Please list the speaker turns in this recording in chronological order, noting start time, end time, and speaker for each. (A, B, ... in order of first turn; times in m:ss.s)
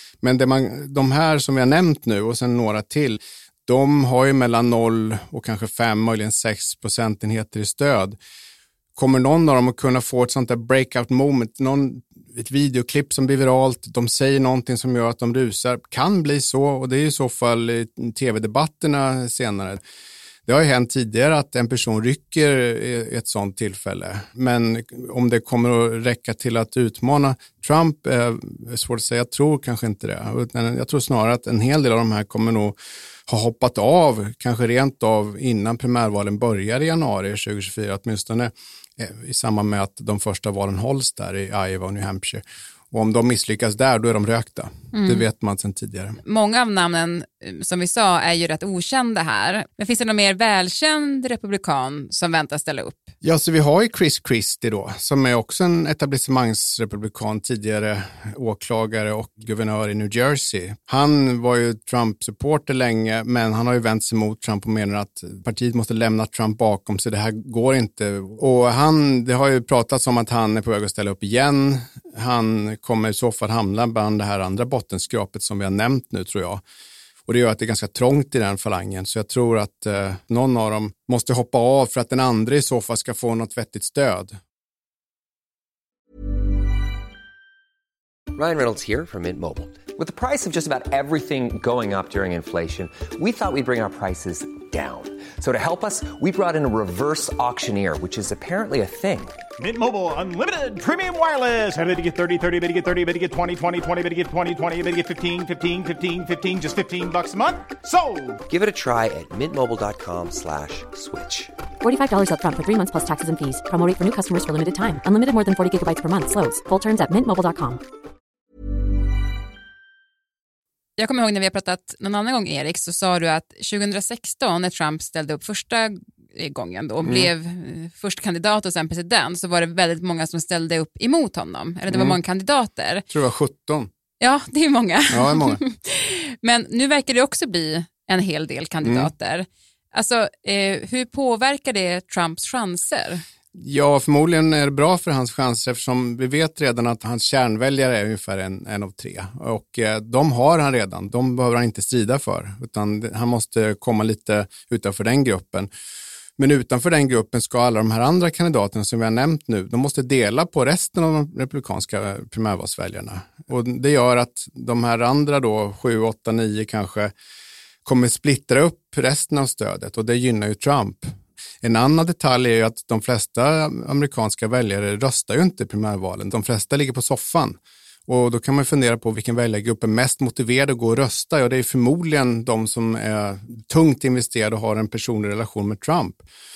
0:00.2-0:08.2 A
0:09.0-0:19.8 A
0:20.5-0:32.8 A
0:33.3-0:46.2 A
0:44.9-0:45.2 B
0:46.2-0:53.1 B
0:53.2-1:16.6 A
1:17.3-1:24.4 A
1:28.3-1:39.4 C
1:39.6-1:48.3 D
1:48.5-1:51.5 C
1:51.8-1:57.8 E
2:01.0-2:13.0 B
2:07.0-2:07.3 A
2:11.9-2:12.2 A
2:13.1-2:13.9 A
2:14.2-2:23.2 B
2:15.1-2:15.6 A
2:18.8-2:19.1 A
2:23.5-2:35.7 A
2:36.4-2:47.1 A
2:47.8-3:06.2 A